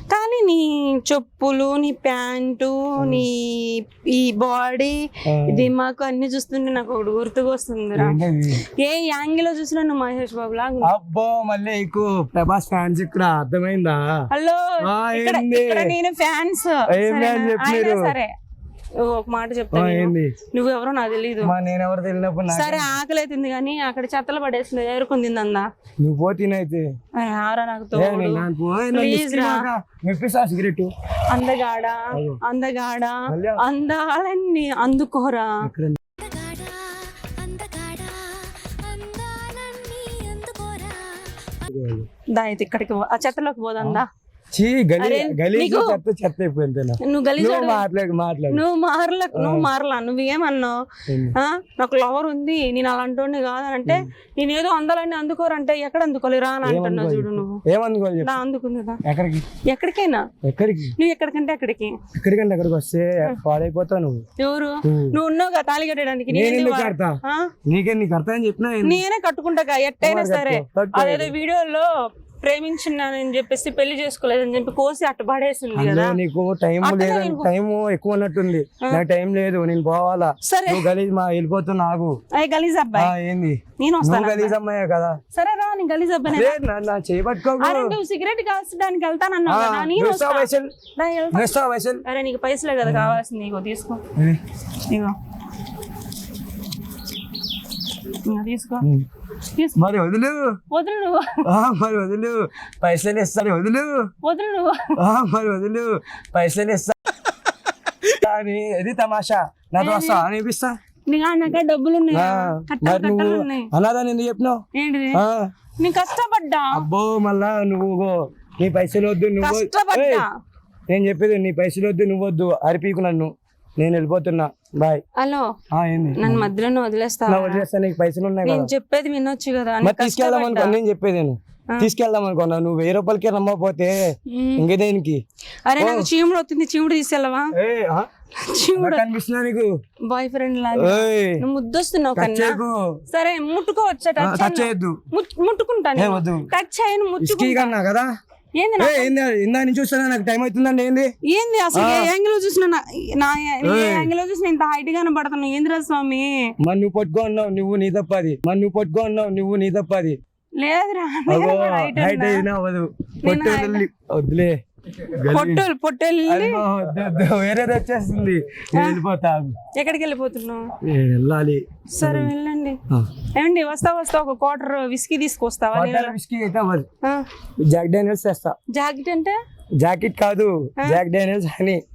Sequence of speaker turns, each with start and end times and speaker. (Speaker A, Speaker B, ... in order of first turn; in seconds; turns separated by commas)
Speaker A: 0.1-8.2, Speaker B: 3.0-3.3, Speaker B: 5.2-5.7, Speaker B: 8.0-8.6, Speaker A: 8.8-10.9, Speaker B: 10.8-14.2, Speaker A: 14.3-18.3, Speaker B: 14.8-15.9, Speaker B: 16.9-18.1, Speaker A: 19.0-21.5, Speaker B: 19.7-20.3, Speaker B: 21.4-22.9, Speaker A: 22.5-25.6, Speaker B: 26.0-26.9, Speaker A: 27.1-29.7, Speaker B: 27.9-30.9, Speaker A: 31.3-35.6, Speaker B: 32.1-32.4, Speaker B: 33.3-33.6, Speaker B: 35.6-36.0, Speaker C: 36.2-41.5, Speaker A: 37.5-38.1, Speaker A: 40.1-40.8, Speaker B: 41.6-42.1, Speaker A: 42.3-44.1, Speaker B: 43.8-48.6, Speaker A: 45.0-46.0, Speaker A: 47.0-47.9, Speaker A: 48.5-50.8, Speaker B: 49.3-49.7, Speaker B: 51.1-51.4, Speaker A: 51.3-57.6, Speaker B: 56.6-58.4, Speaker A: 58.2-59.0, Speaker B: 59.0-59.5, Speaker A: 59.6-60.3, Speaker B: 60.4-61.0, Speaker A: 61.0-62.0, Speaker B: 62.1-64.2, Speaker A: 64.4-67.5, Speaker B: 64.8-65.2, Speaker B: 66.3-69.0, Speaker A: 68.8-76.2, Speaker B: 70.0-71.3, Speaker B: 75.8-82.2, Speaker A: 76.8-77.5, Speaker A: 80.4-80.9, Speaker A: 82.3-83.1, Speaker B: 83.0-85.2, Speaker A: 83.8-84.6, Speaker A: 85.3-86.6, Speaker B: 86.3-88.0, Speaker A: 87.6-91.5, Speaker B: 89.5-90.7, Speaker B: 91.3-92.0, Speaker A: 92.0-94.0, Speaker B: 92.8-93.2, Speaker A: 94.9-95.1, Speaker A: 98.2-98.9, Speaker B: 98.8-99.1, Speaker A: 99.4-99.8, Speaker B: 99.8-100.6, Speaker A: 100.7-101.5, Speaker B: 101.4-104.1, Speaker A: 104.2-105.0, Speaker B: 105.0-107.3, Speaker B: 107.9-110.8, Speaker A: 109.8-110.2, Speaker A: 111.1-113.7, Speaker B: 112.1-114.6, Speaker A: 114.7-115.2, Speaker B: 115.1-115.5, Speaker A: 115.8-116.8, Speaker B: 116.7-120.2, Speaker A: 119.4-120.3, Speaker B: 120.9-125.0, Speaker A: 125.2-125.5, Speaker B: 125.7-126.5, Speaker A: 126.2-127.6, Speaker B: 127.3-128.7, Speaker A: 128.4-130.8, Speaker B: 129.8-135.2, Speaker A: 134.3-134.7, Speaker A: 135.6-137.5, Speaker B: 135.8-136.1, Speaker B: 137.5-138.1, Speaker A: 138.4-139.0, Speaker B: 138.7-139.7, Speaker A: 140.1-142.6, Speaker B: 140.7-141.4, Speaker B: 142.2-143.0, Speaker A: 143.1-147.7, Speaker B: 144.2-145.0, Speaker B: 146.0-146.5, Speaker B: 147.2-148.1, Speaker A: 148.6-149.1, Speaker B: 148.8-151.1, Speaker A: 151.3-156.4, Speaker B: 151.7-152.1, Speaker B: 153.6-154.1, Speaker B: 156.6-160.2, Speaker A: 160.6-162.5, Speaker B: 161.3-165.7, Speaker A: 163.2-163.8, Speaker A: 165.3-166.6, Speaker B: 166.2-169.6, Speaker A: 168.7-169.0, Speaker A: 169.7-170.7, Speaker B: 170.8-172.3, Speaker A: 171.9-172.8, Speaker A: 173.3-176.1, Speaker B: 175.7-176.9, Speaker B: 177.6-178.5, Speaker A: 178.7-179.4, Speaker B: 179.8-181.8